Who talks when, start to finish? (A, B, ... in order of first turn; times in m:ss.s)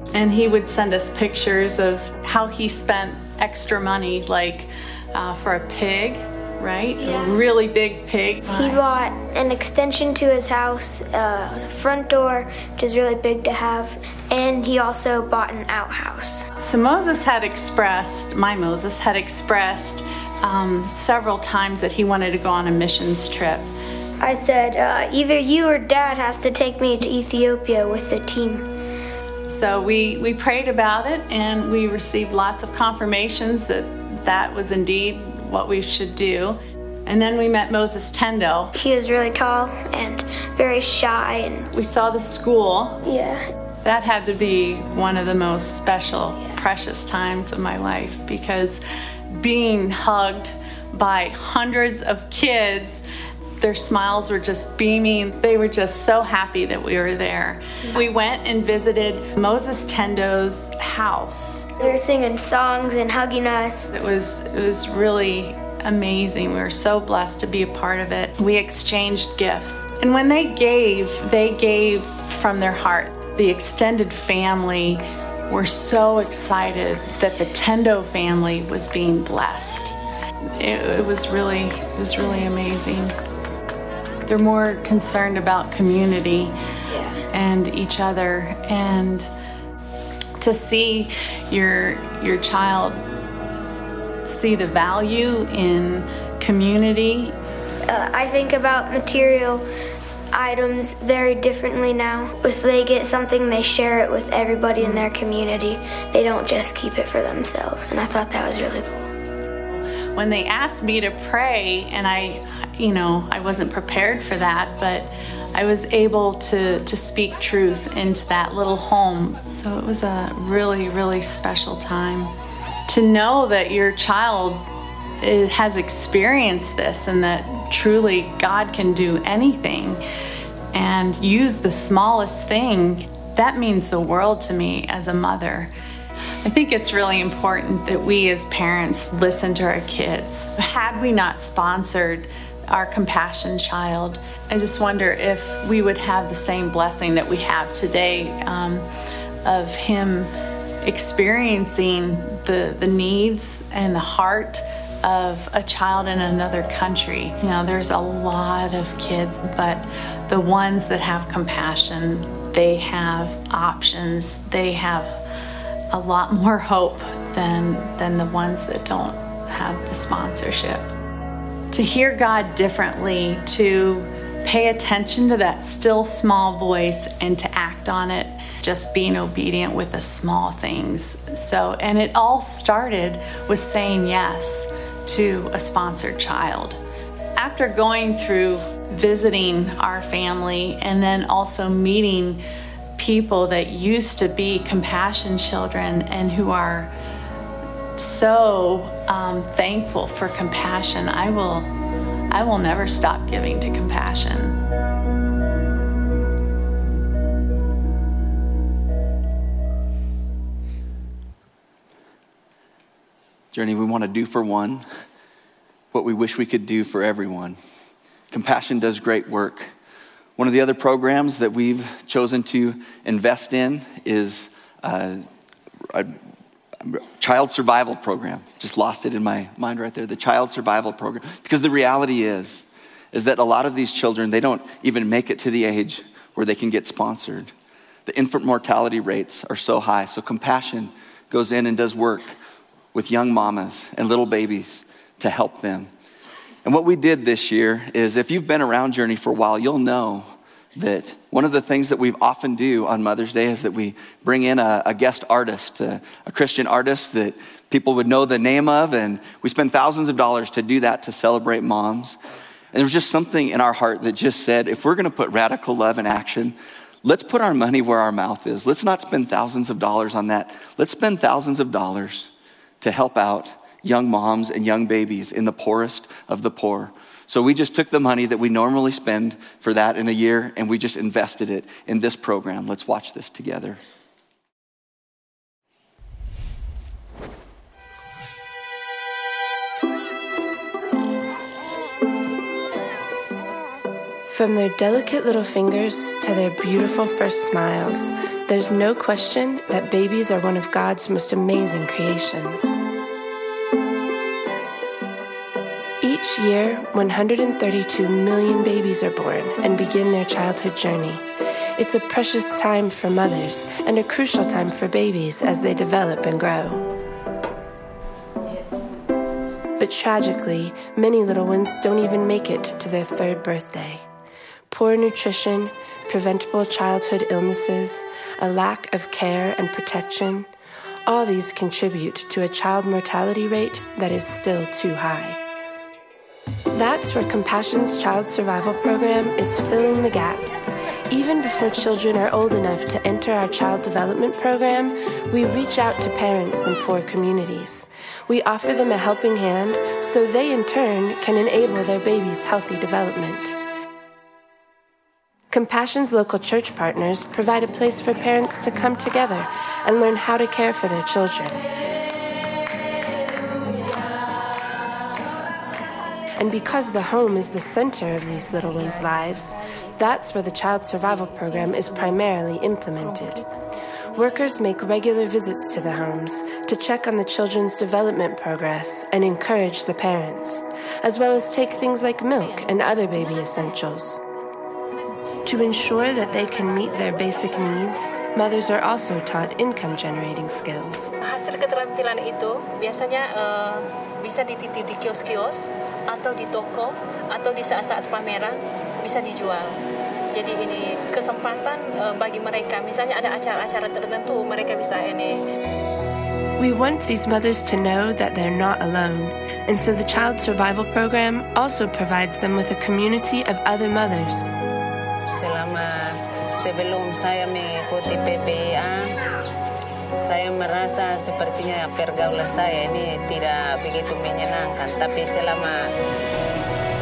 0:00.1-0:08.8 A
0:07.0-0:07.4 B
0:08.5-0:16.5 B
0:16.6-0:23.7 A
0:24.2-0:28.7 B
0:29.5-0:38.7 A
0:38.7-0:41.7 B
0:41.7-0:43.0 A
0:43.0-0:43.4 B
0:43.8-0:48.8 A
0:49.4-0:53.0 A
0:53.6-1:01.7 A
1:01.8-1:03.9 B
1:03.9-1:19.9 A
1:20.6-1:23.1 A
1:24.3-1:26.6 A
1:26.9-1:27.2 B
1:27.3-1:29.3 A
1:30.4-1:33.0 A
1:34.2-1:37.3 A
1:37.9-1:39.6 B
1:40.3-1:48.8 B
1:44.8-1:45.1 A
1:50.1-2:02.3 A
2:02.9-2:04.6 A
2:05.2-2:10.0 A
2:10.7-2:15.7 A
2:16.4-2:28.8 A
2:29.4-2:30.3 A
2:30.8-2:45.2 A
2:45.9-2:50.9 A
2:51.7-3:06.8 A
3:07.4-3:12.4 A
3:13.0-3:16.9 A
3:18.0-3:21.7 A
3:22.3-3:24.6 A
3:33.5-3:34.8 C
3:35.9-3:37.6 C
3:38.3-3:39.7 C
3:40.4-3:45.2 C
3:45.9-3:46.2 C
3:46.8-3:57.5 C
3:58.1-4:02.3 C
4:02.9-4:05.9 C
4:06.6-4:22.2 C
4:22.7-4:43.8 C
4:54.3-5:02.7 D
5:06.0-5:11.2 D
5:11.8-5:16.8 D
5:19.8-5:24.0 D
5:24.7-5:30.5 D
5:31.0-5:35.4 D
5:36.7-5:40.5 D
5:41.1-5:53.6 D
5:55.5-6:01.6 D
6:06.4-6:13.4 D
6:14.1-6:24.2 D
6:25.4-6:31.1 D
6:31.2-6:39.8 E
6:40.3-6:45.4 E
6:46.6-6:54.4 D
6:55.3-6:59.1 F
7:00.2-7:05.8 F